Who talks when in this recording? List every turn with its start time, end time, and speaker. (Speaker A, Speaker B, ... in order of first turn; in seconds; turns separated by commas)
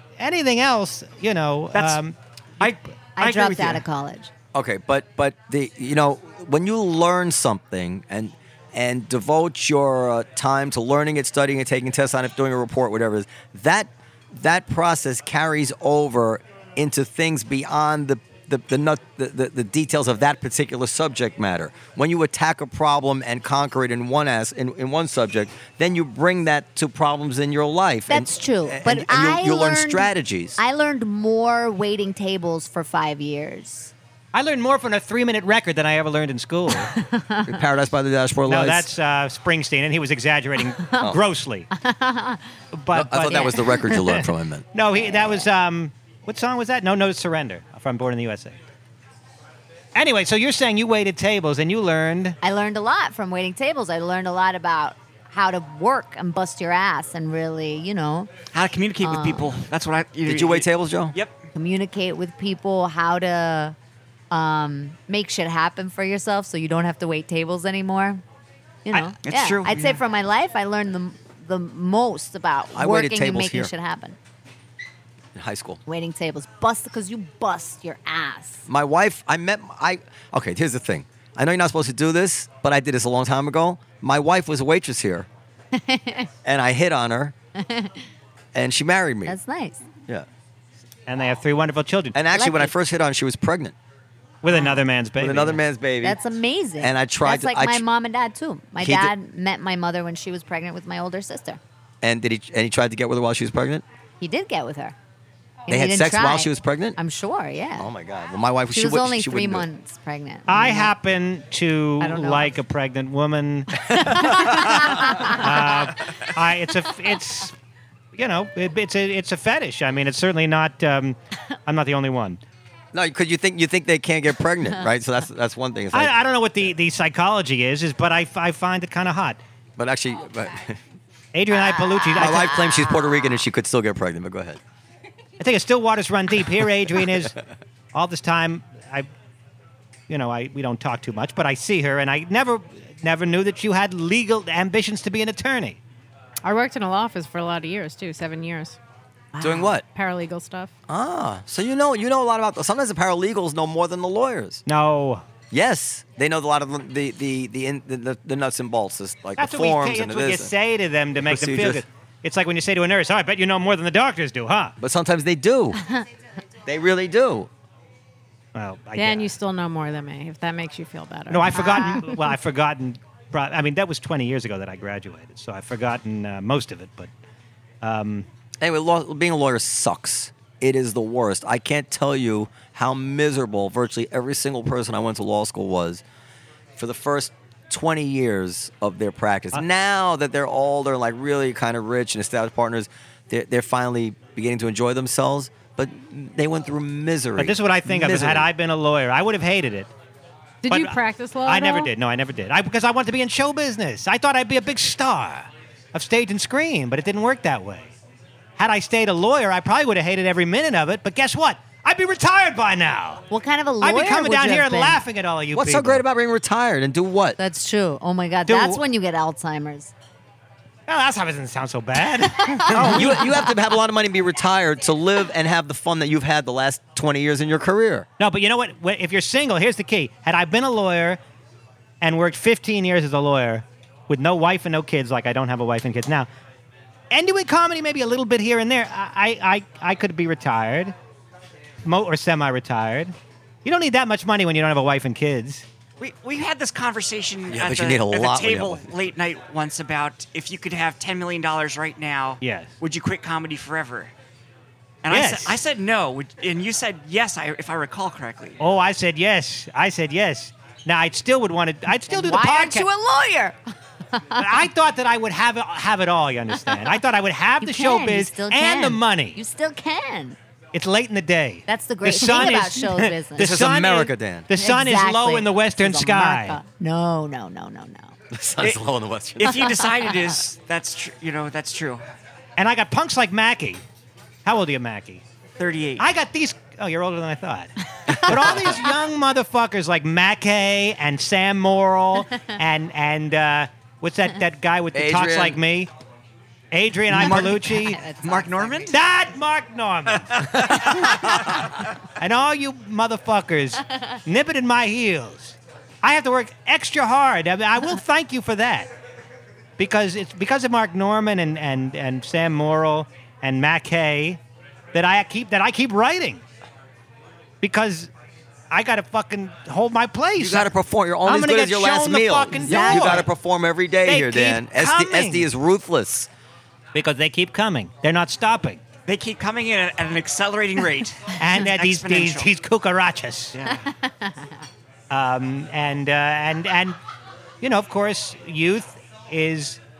Speaker A: 0.2-2.8, Speaker B: 1.7-2.0, Speaker B: 2.6-3.8, Speaker C: 3.2-4.3, Speaker D: 4.5-30.6, Speaker C: 28.1-33.9, Speaker A: 34.3-36.9, Speaker C: 36.9-37.5, Speaker D: 37.5-38.9, Speaker A: 38.5-41.7, Speaker C: 41.8-42.4, Speaker A: 42.7-44.2, Speaker D: 42.9-44.6, Speaker C: 43.3-43.9, Speaker A: 44.7-48.6, Speaker A: 49.9-52.4, Speaker C: 52.4-58.3, Speaker B: 58.5-61.4, Speaker C: 59.0-59.5, Speaker D: 60.2-61.1, Speaker C: 61.5-63.8, Speaker C: 64.3-68.2, Speaker C: 68.8-74.2, Speaker B: 69.2-70.0, Speaker D: 72.7-73.7, Speaker D: 75.3-75.8, Speaker C: 75.9-78.7, Speaker D: 78.7-85.3, Speaker C: 85.7-86.3, Speaker D: 86.4-87.3, Speaker C: 87.5-88.0, Speaker D: 88.5-89.3, Speaker C: 89.2-89.8, Speaker A: 91.1-92.2, Speaker D: 92.1-93.7, Speaker C: 92.3-92.7, Speaker A: 94.4-95.6, Speaker C: 94.5-94.8, Speaker D: 95.2-96.2, Speaker C: 96.0-101.6, Speaker D: 96.8-97.8, Speaker D: 98.8-99.1, Speaker D: 102.0-103.8, Speaker C: 104.2-104.9, Speaker C: 105.7-107.9, Speaker D: 105.7-107.0, Speaker D: 107.8-109.7, Speaker C: 108.7-110.9, Speaker A: 110.5-117.5, Speaker C: 112.0-112.5, Speaker C: 114.1-115.4, Speaker D: 114.1-114.7, Speaker A: 118.1-122.4, Speaker D: 122.9-126.2, Speaker A: 125.9-129.4, Speaker D: 129.8-130.8, Speaker A: 131.3-132.5, Speaker C: 131.7-133.3, Speaker D: 132.1-134.6, Speaker A: 135.4-137.3, Speaker A: 137.9-139.1, Speaker A: 140.1-145.8, Speaker E: 146.4-148.8, Speaker E: 149.4-150.7, Speaker D: 149.4-149.8, Speaker D: 150.9-154.6, Speaker A: 154.7-155.2, Speaker D: 155.5-160.5, Speaker A: 159.4-164.7, Speaker D: 161.2-161.8, Speaker D: 164.8-165.8, Speaker D: 166.6-167.5, Speaker A: 168.5-169.3, Speaker E: 168.9-172.2, Speaker A: 171.3-177.1, Speaker A: 177.8-178.3, Speaker D: 178.6-186.0, Speaker D: 186.8-198.5, Speaker A: 197.4-199.9, Speaker E: 200.6-201.9, Speaker A: 200.7-207.9, Speaker A: 208.6-213.2, Speaker C: 213.3-215.0, Speaker A: 213.8-216.0, Speaker D: 215.5-217.4, Speaker C: 217.4-219.9, Speaker A: 218.4-218.8, Speaker A: 220.9-223.3, Speaker C: 222.4-223.4, Speaker D: 222.7-228.1, Speaker A: 228.2-231.2, Speaker A: 232.0-236.3, Speaker A: 237.1-240.9, Speaker A: 241.8-245.6, Speaker B: 246.0-254.1, Speaker D: 247.5-249.0, Speaker A: 252.4-252.7, Speaker B: 255.0-258.6, Speaker A: 255.1-255.6, Speaker A: 258.6-262.9, Speaker C: 262.1-263.6, Speaker C: 264.2-264.6, Speaker A: 264.4-269.4, Speaker C: 267.6-270.4, Speaker A: 270.7-276.6, Speaker C: 271.7-273.5, Speaker D: 273.4-274.5, Speaker C: 274.6-278.1, Speaker D: 278.3-279.8, Speaker B: 279.4-282.0, Speaker A: 282.6-283.8, Speaker A: 284.4-285.2, Speaker B: 285.6-286.1, Speaker A: 286.0-295.9, Speaker D: 288.1-288.4, Speaker D: 294.9-295.6, Speaker A: 296.7-298.0, Speaker B: 297.1-298.9, Speaker C: 297.2-298.9, Speaker A: 298.9-301.1, Speaker A: 302.2-308.9, Speaker A: 309.8-314.4, Speaker A: 314.9-316.4, Speaker A: 317.6-318.1, Speaker A: 318.7-320.7, Speaker D: 320.4-326.3, Speaker A: 321.2-323.3, Speaker C: 322.6-323.2, Speaker A: 324.0-325.5, Speaker A: 326.9-328.8, Speaker B: 329.1-332.5, Speaker A: 331.4-333.6, Speaker B: 333.5-333.8, Speaker A: 335.1-337.0, Speaker A: 337.6-339.8